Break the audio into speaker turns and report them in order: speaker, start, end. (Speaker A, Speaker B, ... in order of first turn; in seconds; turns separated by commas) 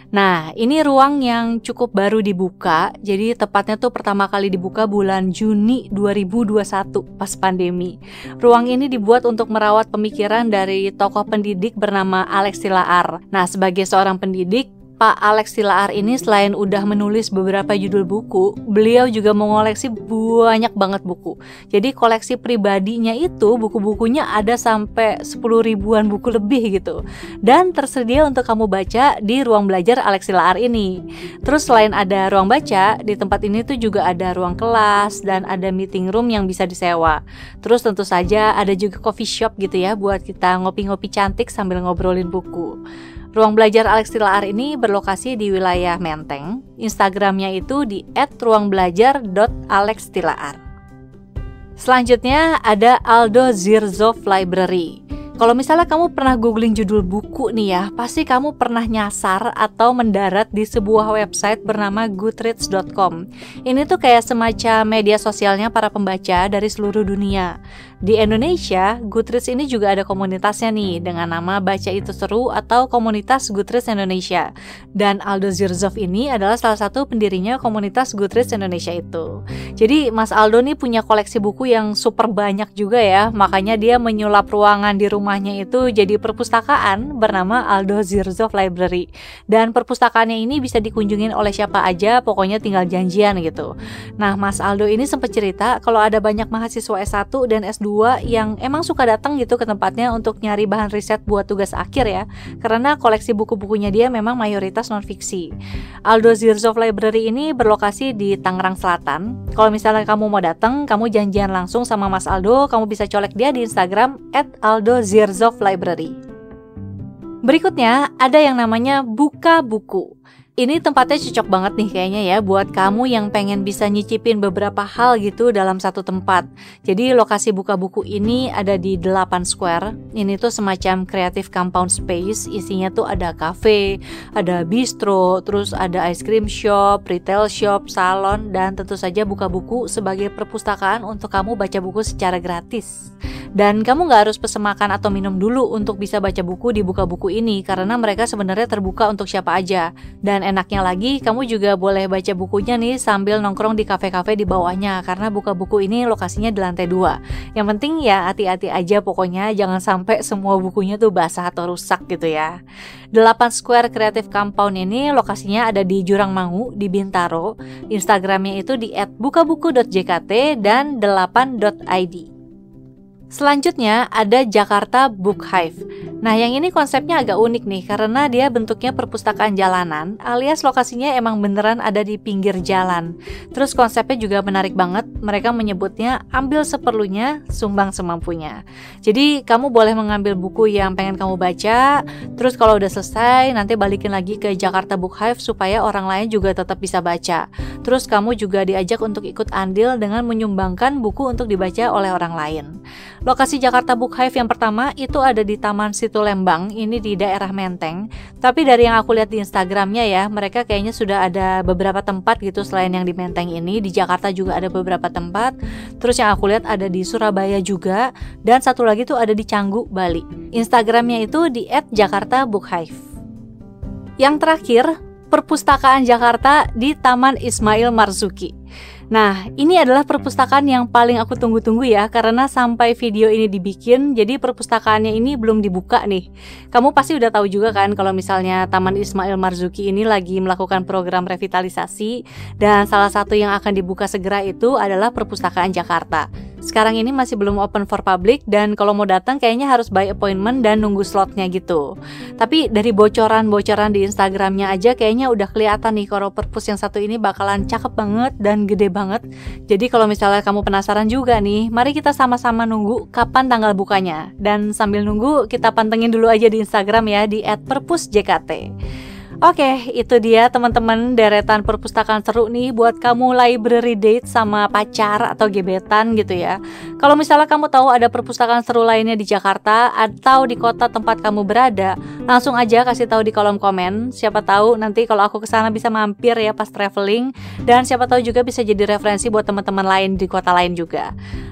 Speaker A: 0.1-30.9, Speaker A: 31.4-42.8, Speaker A: 43.3-50.6, Speaker A: 51.8-67.5, Speaker A: 68.0-105.5, Speaker A: 106.1-116.2, Speaker A: 117.5-162.5, Speaker A: 163.1-172.3, Speaker A: 173.3-202.7, Speaker A: 203.3-223.0, Speaker A: 224.2-228.5, Speaker A: 229.1-251.9, Speaker A: 252.4-268.7, Speaker A: 269.4-291.1